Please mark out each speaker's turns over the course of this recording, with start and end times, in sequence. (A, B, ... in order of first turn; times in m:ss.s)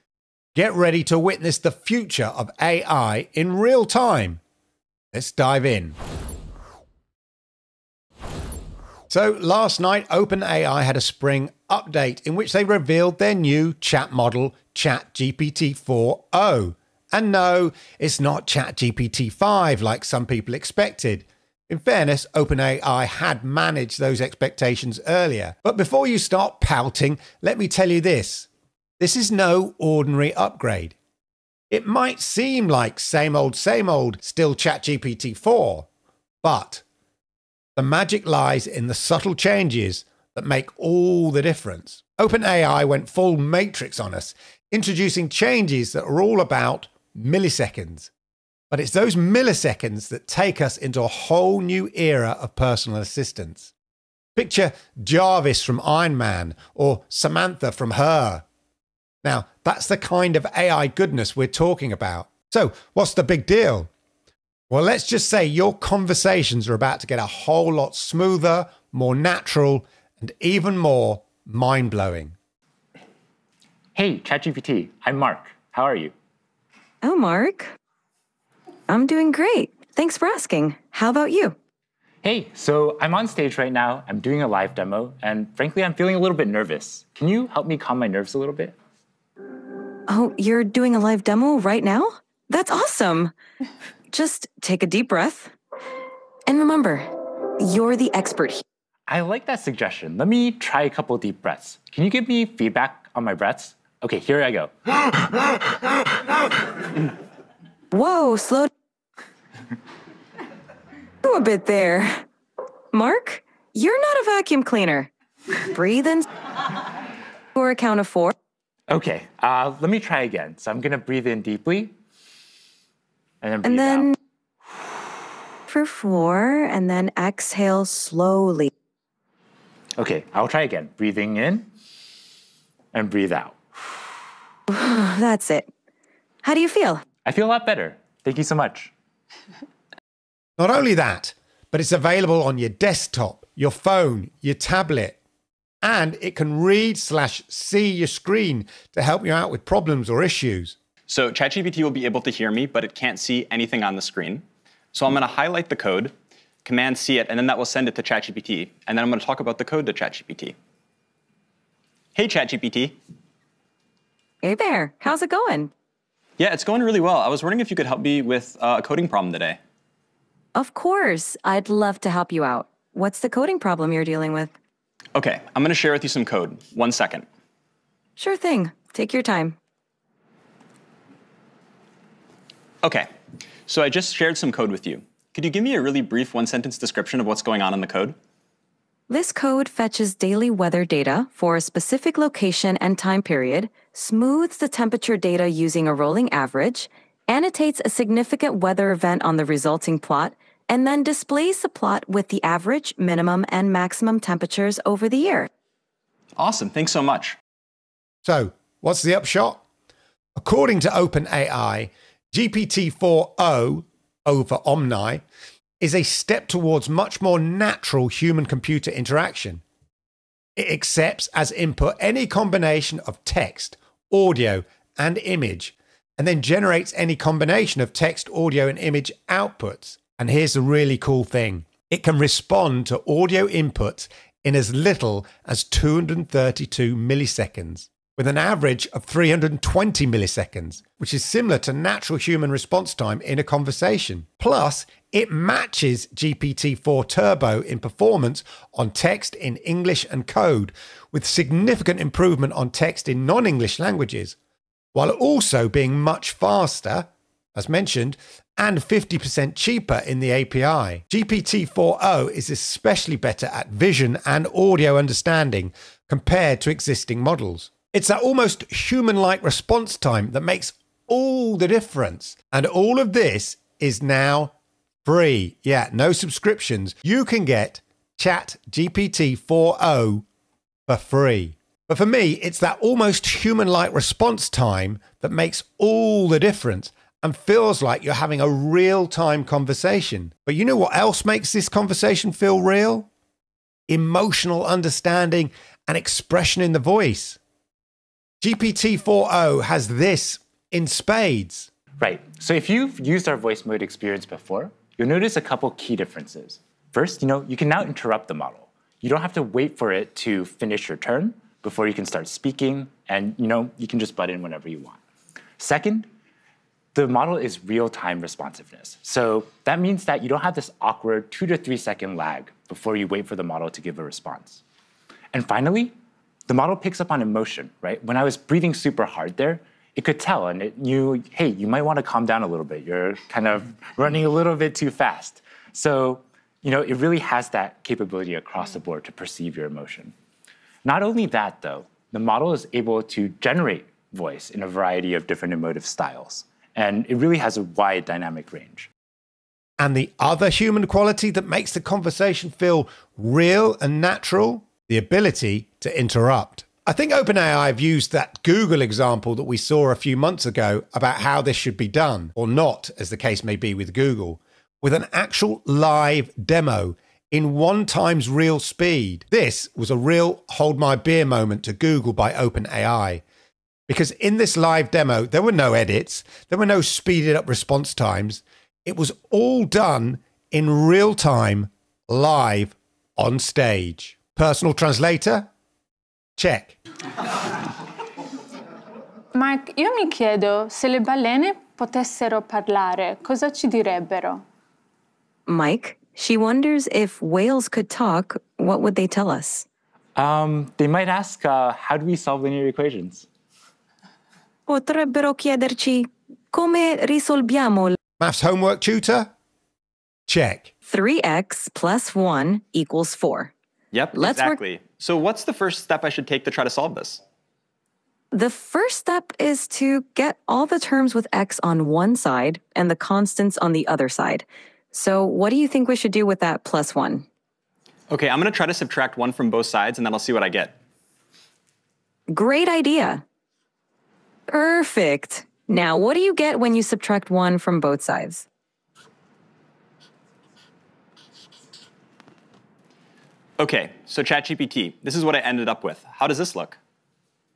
0:00.5-0:04.4 A
0:05.1-0:06.0 A
0:09.1-0:28.5 A
0:29.0-0:31.0 A
0:31.7-0:35.9 A
0:36.4-0:36.8 A
0:37.8-0:48.1 A
0:48.7-0:53.7 A
0:54.4-0:58.4 A
0:59.2-1:03.9 A
1:04.7-1:12.4 A
1:13.9-1:16.1 B
1:17.0-1:17.7 C
1:18.9-1:21.6 C
1:22.2-1:28.8 B
1:30.1-1:33.3 C
1:34.1-1:35.5 C
1:36.5-1:38.6 C
1:39.1-1:44.7 B
1:47.9-1:48.7 C
1:51.2-1:52.2 C
1:52.9-1:56.3 C
1:57.5-1:58.3 C
1:58.9-2:01.9 B
2:03.4-2:04.1 B
2:03.6-2:04.1 C
2:05.7-2:08.7 C
2:10.0-2:11.7 B
2:12.9-2:13.6 B
2:14.7-2:15.7 C
2:16.4-2:17.0 C
2:17.2-2:18.9 B
2:20.6-2:25.2 A
2:25.8-2:30.8 A
2:31.1-2:36.1 D
2:36.6-2:40.6 D
2:42.1-2:43.0 D
2:44.4-2:45.7 C
2:46.4-2:49.6 D
2:50.6-2:54.5 C
2:55.1-2:57.2 D
2:58.2-2:59.6 C
3:02.8-3:03.1 D
3:03.7-3:08.2 D
3:09.1-3:25.5 C
3:26.4-3:27.4 D
3:28.2-3:29.6 A
3:30.4-3:35.2 A
3:35.8-3:39.6 A
3:40.6-4:14.4 A
4:14.9-4:34.5 A
4:35.0-4:40.2 A
4:40.9-4:53.1 A
4:53.9-4:57.4 A
4:58.4-5:01.7 A
5:02.0-5:15.0 B
5:15.6-5:16.1 B
5:16.9-5:24.6 B
5:25.3-5:25.9 B
5:26.5-5:40.1 B
5:40.8-5:48.9 B
5:49.8-6:13.2 A
6:13.9-6:25.5 A
6:26.4-6:26.8 A
6:29.3-6:34.4 E
6:35.5-6:39.6 C
6:40.2-6:43.3 B
6:44.7-6:48.0 C
6:48.2-6:49.3 A
6:50.3-6:50.7 A
6:50.9-6:53.5 C
6:53.9-6:57.2 D
6:54.1-6:54.6 C
6:58.3-7:07.2 C
7:08.1-7:10.8 D
7:12.3-7:13.2 C
7:14.5-7:18.4 C
7:23.6-7:26.8 D